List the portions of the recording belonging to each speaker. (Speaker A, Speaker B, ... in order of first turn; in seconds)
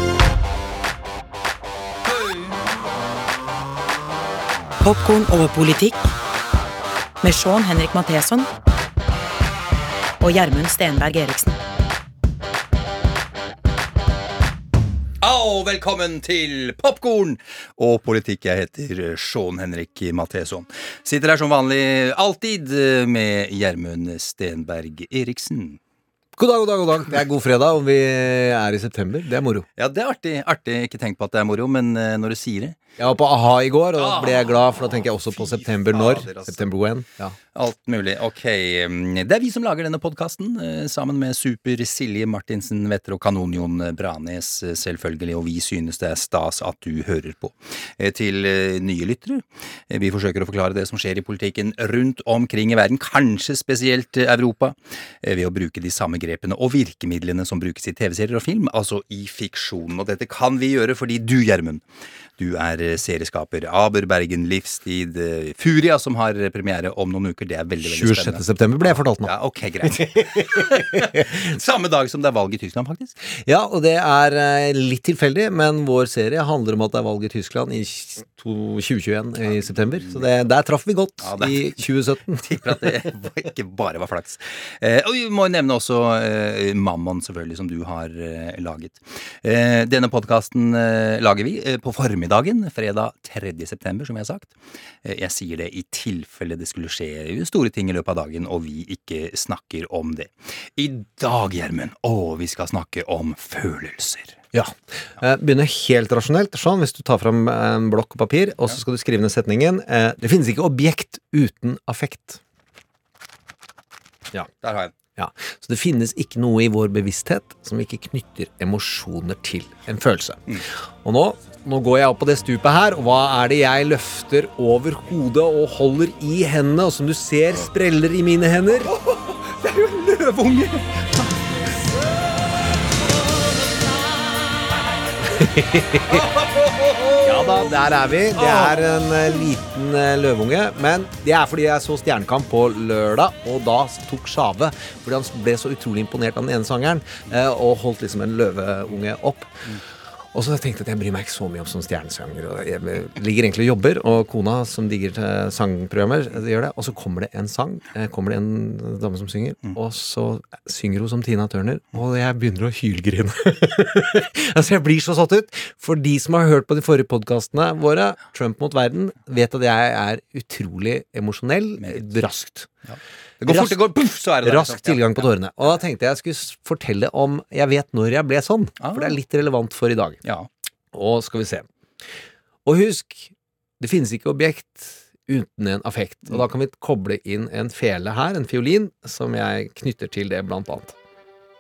Speaker A: 4.8-6.0, 7.2-8.5, 10.2-11.6
Speaker B: 15.2-25.8, 29.8-32.8, 34.0-36.7, 37.5-61.8, 62.4-68.4, 69.2-73.1, 79.9-80.2, 81.2-81.8, 82.4-104.4, 114.6-114.9, 128.8-131.5, 136.1-137.7, 138.3-138.9, 171.8-172.1, 172.9-175.3, 178.8-179.2
Speaker C: 26.4-29.7, 33.0-37.3, 67.8-71.4, 73.3-82.6, 104.5-112.4, 115.1-120.4, 121.0-128.9, 135.3-136.2, 137.2-149.7, 150.3-172.7, 173.4-173.8, 174.4-180.2, 180.9-181.7, 182.6-190.9